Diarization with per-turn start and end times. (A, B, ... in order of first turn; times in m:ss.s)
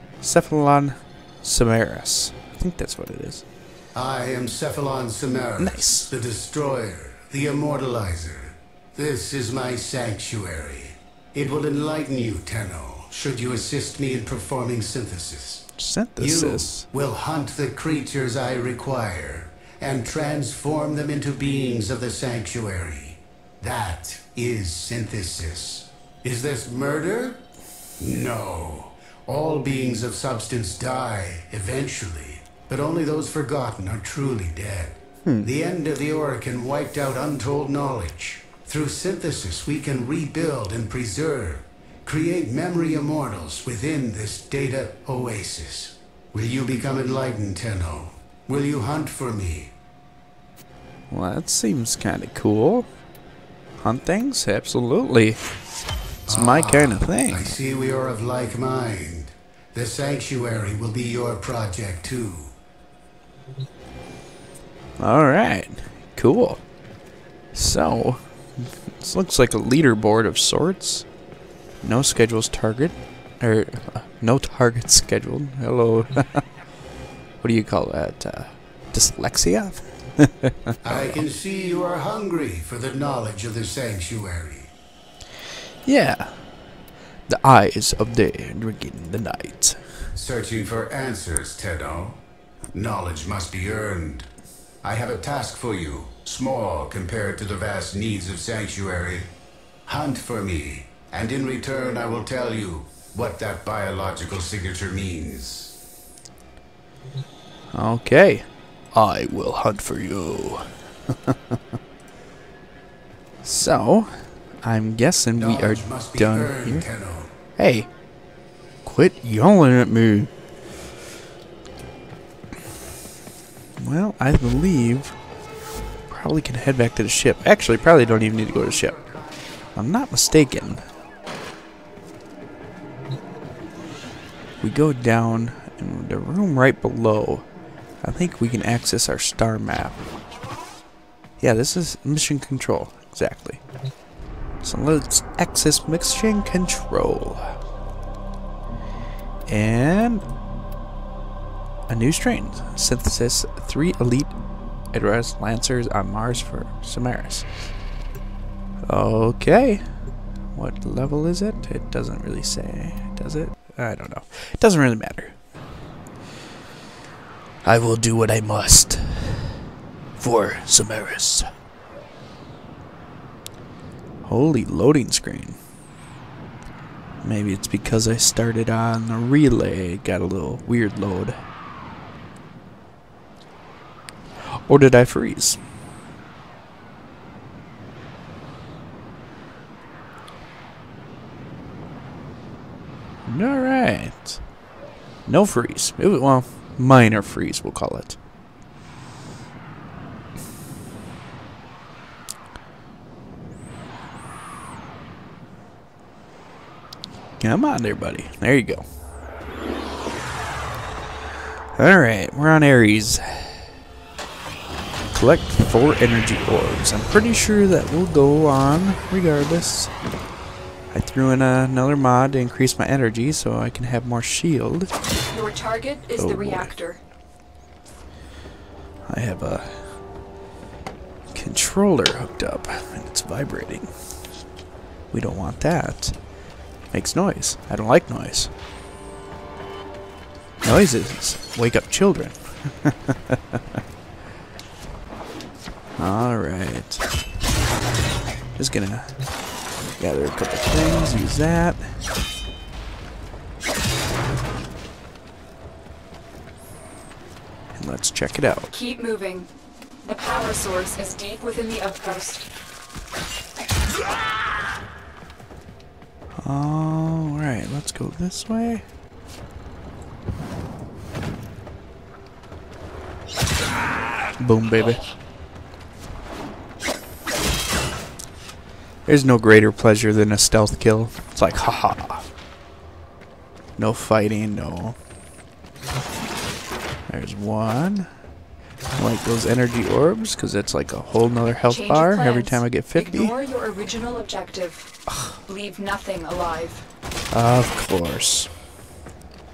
0:00.2-0:03.4 A
0:03.9-0:27.4 B
0:05.6-0:06.1 A
0:15.8-0:16.9 A
0:28.0-0:49.7 B
0:51.1-0:52.9 A
0:53.8-0:55.4 A
0:56.2-0:57.5 A
0:56.3-1:02.5 B
1:05.0-1:06.6 A
1:07.5-1:11.1 A
1:11.8-1:16.4 A
1:17.4-1:21.2 A
1:20.8-1:24.7 B
1:25.8-1:26.4 A
1:27.3-1:29.8 A
1:30.2-1:32.2 B
1:32.7-1:34.3 B
1:34.8-1:39.3 B
1:39.9-1:45.8 B
1:47.7-1:51.6 A
1:53.4-1:54.1 A
1:54.6-1:56.9 A
1:55.4-1:57.3 B
1:57.6-1:57.9 A
1:58.8-2:00.3 A
2:03.8-2:05.2 A
2:06.1-2:09.0 A
2:08.0-2:09.4 B
2:09.8-2:10.8 A
2:14.6-2:17.5 A
2:18.0-2:20.0 A
2:21.4-2:23.6 A
2:24.6-2:27.5 A
2:29.5-2:30.3 A
2:31.9-2:34.4 A
2:34.9-2:37.5 A
2:38.9-2:39.8 A
2:40.5-2:45.4 A
2:47.6-2:49.6 A
2:50.2-2:51.5 A
2:54.2-2:55.6 A
2:57.2-3:01.4 A
3:04.5-3:05.6 A
3:13.2-3:14.4 A
3:15.2-3:18.2 A
3:27.4-3:28.8 A
3:31.8-3:33.7 A
3:35.1-3:39.9 A
3:40.9-3:44.9 A
3:45.3-3:47.0 C
3:46.2-3:46.7 A
3:49.1-3:49.8 A
3:51.3-3:53.9 A
3:55.1-3:56.1 A
3:56.9-3:58.5 A
4:00.6-4:03.6 A
4:06.0-4:07.0 A
4:08.6-4:09.1 A
4:10.0-4:11.8 A
4:17.7-4:18.7 A
4:18.7-4:19.5 C
4:20.0-4:22.4 C
4:26.4-4:28.8 A
4:34.4-4:35.0 A
4:39.1-4:42.3 A
4:43.8-4:45.0 A
4:47.1-4:48.1 A
4:48.9-4:53.4 A
4:51.7-4:54.9 C
4:55.1-4:55.3 A
4:55.5-4:56.8 C
4:57.3-4:58.5 A